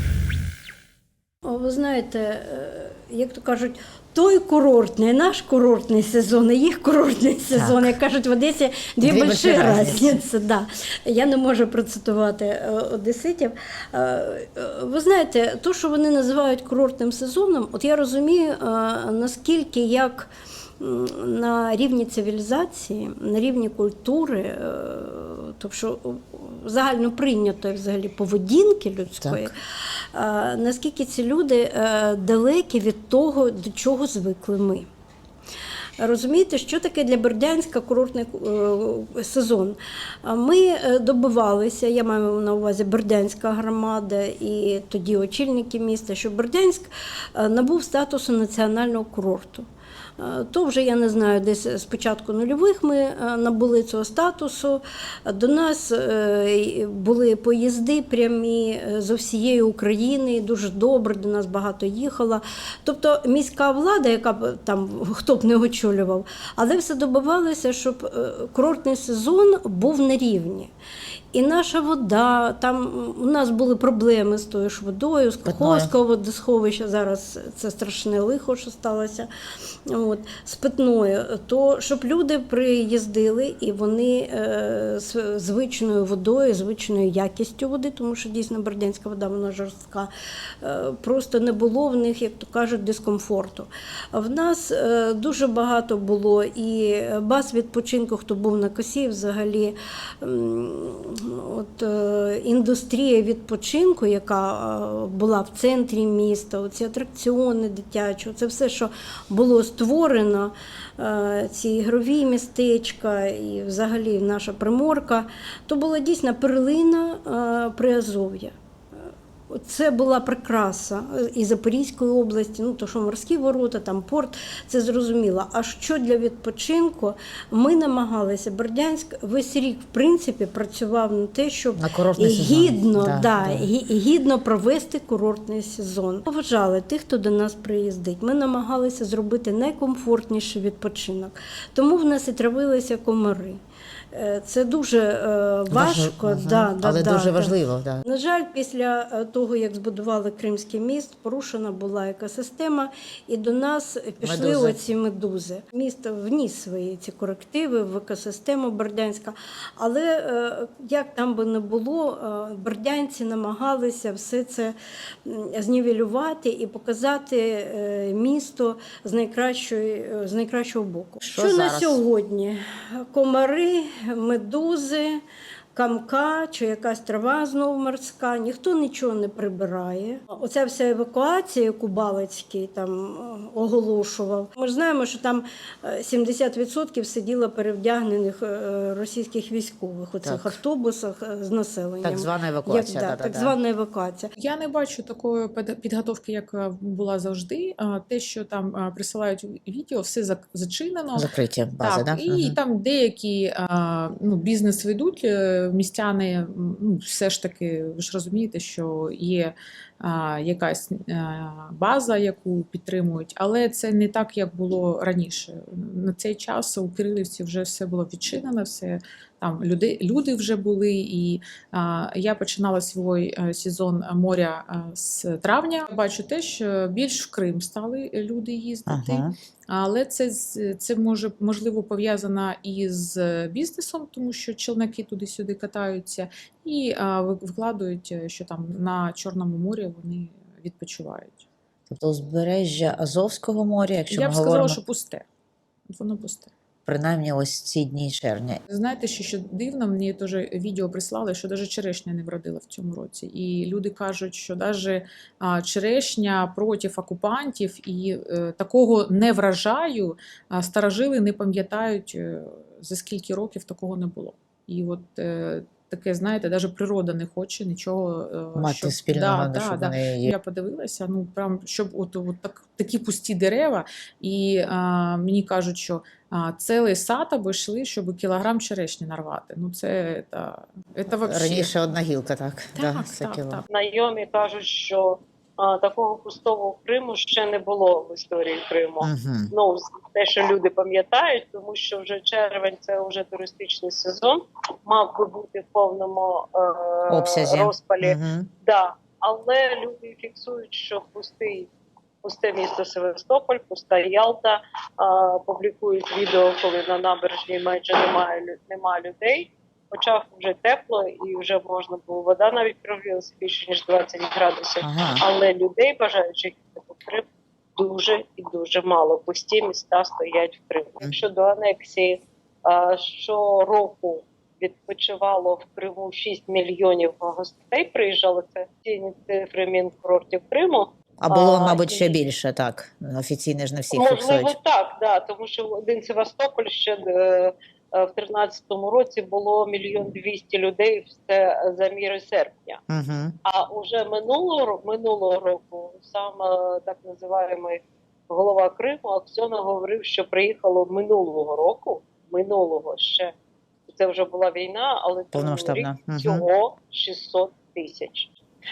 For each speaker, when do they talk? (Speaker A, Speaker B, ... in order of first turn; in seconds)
Speaker A: 1.4-29.5, 30.1-34.9, 36.0-49.6, 50.2-70.7, 71.3-79.3, 79.9-118.5, 119.5-143.6, 144.1-175.2, 175.7-194.3
Speaker B: 7.5-7.9, 9.0-10.2, 29.2-29.5, 75.4-75.9, 131.8-133.7, 145.7-148.0, 154.2-154.8, 171.2-172.0, 190.2-190.6, 192.0-193.5, 201.2-202.6, 228.9-229.3, 241.9-244.8, 246.8-248.6, 268.5-270.3, 281.2-283.6, 289.0-289.5, 297.1-298.5, 314.8-315.2, 331.2-334.5, 342.9-343.3, 355.3-356.4
Speaker C: 194.3-201.3, 201.8-241.4, 244.1-245.2, 245.9-246.5, 248.7-281.7, 282.8-283.7
Speaker D: 283.7-301.7, 302.2-332.2, 333.9-342.8, 343.4-353.3, 353.9-358.3